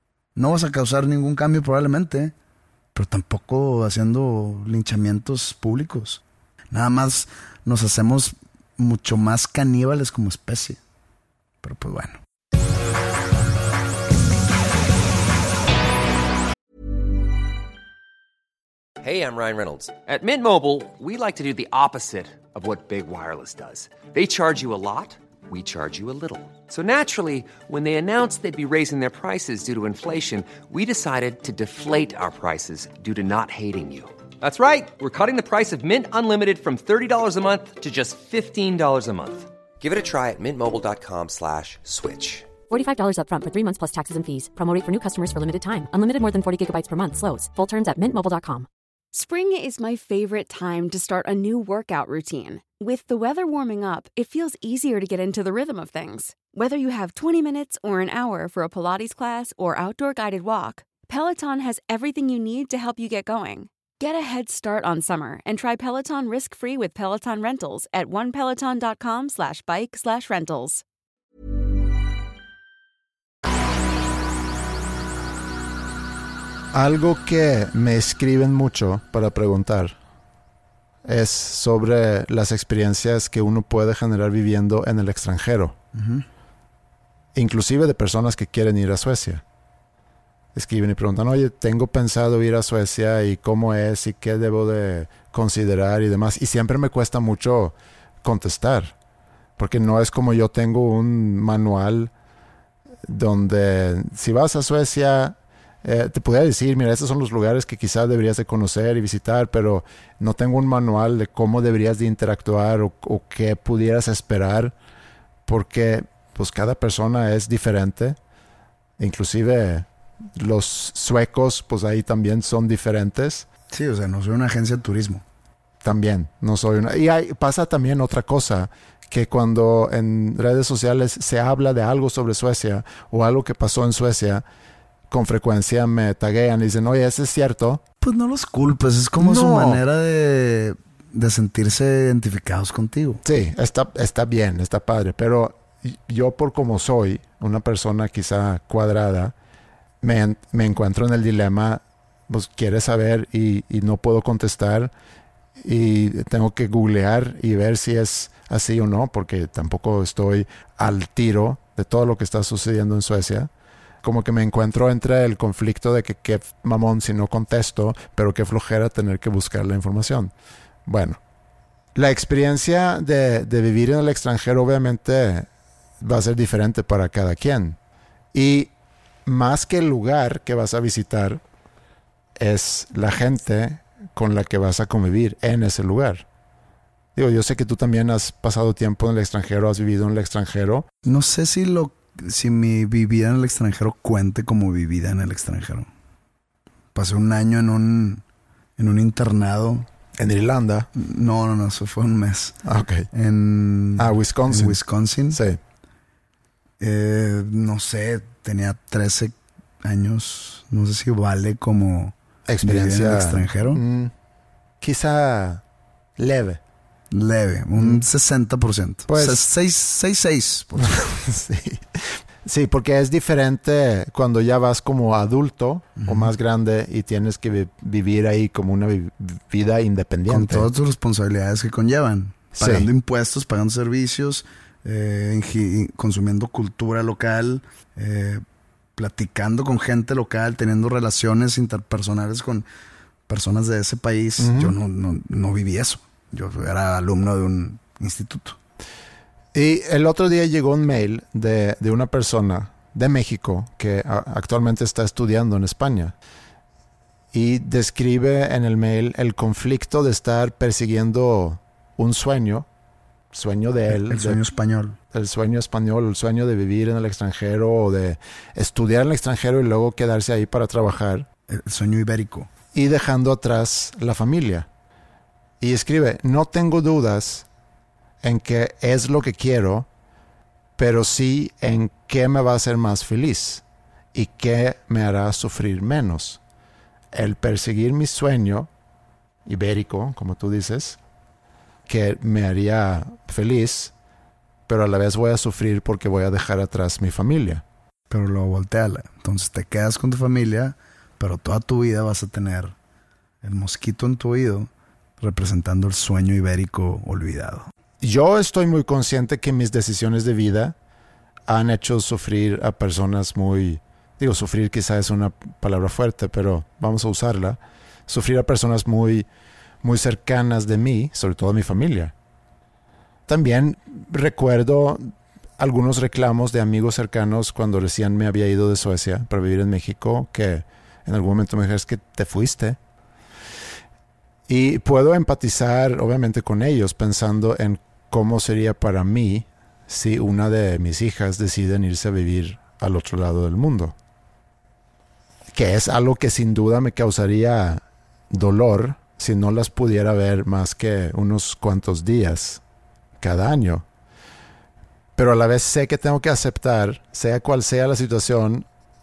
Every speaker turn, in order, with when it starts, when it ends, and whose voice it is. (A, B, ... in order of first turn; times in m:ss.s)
0:00.4-0:02.3 A
0:02.9-0:10.8 A
0:11.6-0:12.2 A
0:19.0-0:42.6 B
0:42.6-0:48.7 C
0:49.1-1:10.8 D
1:16.7-1:20.0 E
1:21.0-1:25.8 E
1:25.9-1:26.2 A
1:27.3-1:29.4 E
1:30.5-1:38.9 E
1:39.6-1:42.1 E
1:43.0-1:54.7 E
1:55.4-1:58.2 E
1:59.0-2:03.5 E
2:03.7-2:05.2 A
2:05.8-2:14.4 E
2:15.1-2:17.8 E
2:18.0-2:23.2 A
2:19.2-2:19.8 E
2:23.2-2:29.3 E
2:30.0-2:34.9 E
2:35.6-2:43.5 E
2:44.0-2:50.3 E
2:50.8-2:51.2 E
2:51.9-2:55.5 E
2:56.0-2:57.8 E
2:58.3-2:58.7 E
2:59.2-3:01.4 E
3:02.4-3:06.2 E
3:07.2-3:10.8 E
3:11.0-3:15.9 A
3:16.9-3:18.2 A
3:18.8-3:19.9 A
3:20.2-3:20.9 E
3:20.9-3:22.6 A
3:22.6-3:23.1 E
3:23.1-3:25.4 A
3:24.0-3:24.8 E
3:25.3-3:25.6 E
3:26.8-3:33.8 A
3:32.5-3:34.1 E
3:34.8-3:35.6 E
3:36.2-3:36.6 E
3:37.1-3:41.0 A
3:39.1-3:39.4 E
3:40.8-3:50.7 E
3:46.0-3:46.3 A
3:50.3-3:58.4 A
3:52.6-3:52.9 E
3:59.0-4:02.6 A
4:03.3-4:08.6 A
4:04.4-4:04.7 E
4:09.5-4:16.1 E
4:17.3-4:22.6 E
4:23.3-4:24.4 E
4:23.9-4:25.0 A
4:25.1-4:31.3 E
4:31.5-4:32.5 A
4:32.7-4:34.7 E
4:35.6-4:37.5 E
4:38.2-4:39.9 E
4:40.8-4:43.6 E
4:44.1-4:46.4 E
4:47.1-4:48.7 E
4:49.4-4:51.0 E
4:51.9-4:53.9 E
4:54.7-4:57.6 E
4:58.1-5:02.8 A
5:03.4-5:07.7 A
5:08.0-5:10.7 E
5:11.5-5:19.3 E
5:19.8-5:22.1 E
5:23.3-5:32.8 E
5:34.5-5:43.9 E
5:45.5-5:52.6 E
5:53.2-5:53.8 E
5:55.2-5:58.6 E